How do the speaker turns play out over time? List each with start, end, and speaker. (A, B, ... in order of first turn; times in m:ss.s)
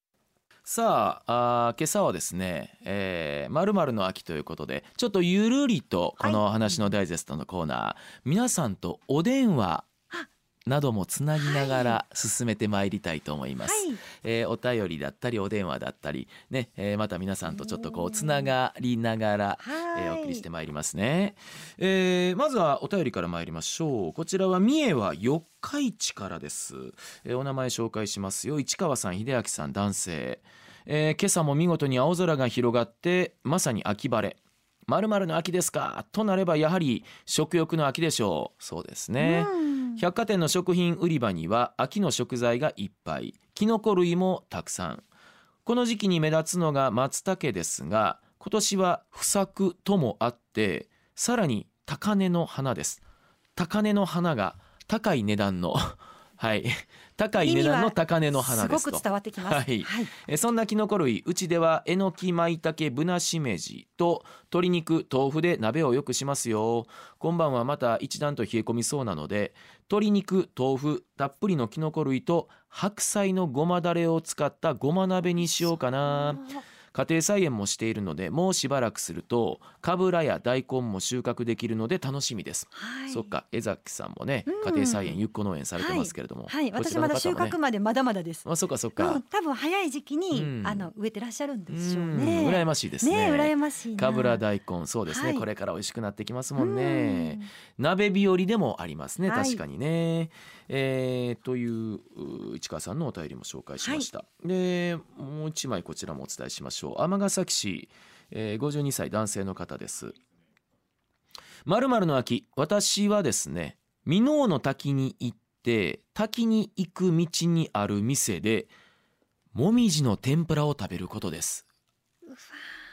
0:00.6-0:09.9 A
0:10.6-0:45.0 A
0:11.4-0:12.0 B
0:13.6-0:14.0 B
0:17.5-0:18.5 B
0:19.6-0:20.4 B
0:39.2-0:40.0 B
0:45.6-0:53.0 A
0:53.6-1:27.6 A
0:57.4-1:00.1 B
1:15.4-1:16.6 B
1:22.7-1:23.3 B
1:24.5-1:25.2 B
1:25.8-1:28.4 B
1:28.4-1:29.2 A
1:29.0-1:34.4 B
1:30.3-1:30.9 A
1:31.7-1:50.2 A
1:35.1-1:35.4 B
1:36.6-1:37.5 B
1:39.2-1:39.6 B
1:43.8-1:44.1 B
1:51.6-1:58.7 A
1:59.5-2:01.6 A
2:02.3-2:02.5 B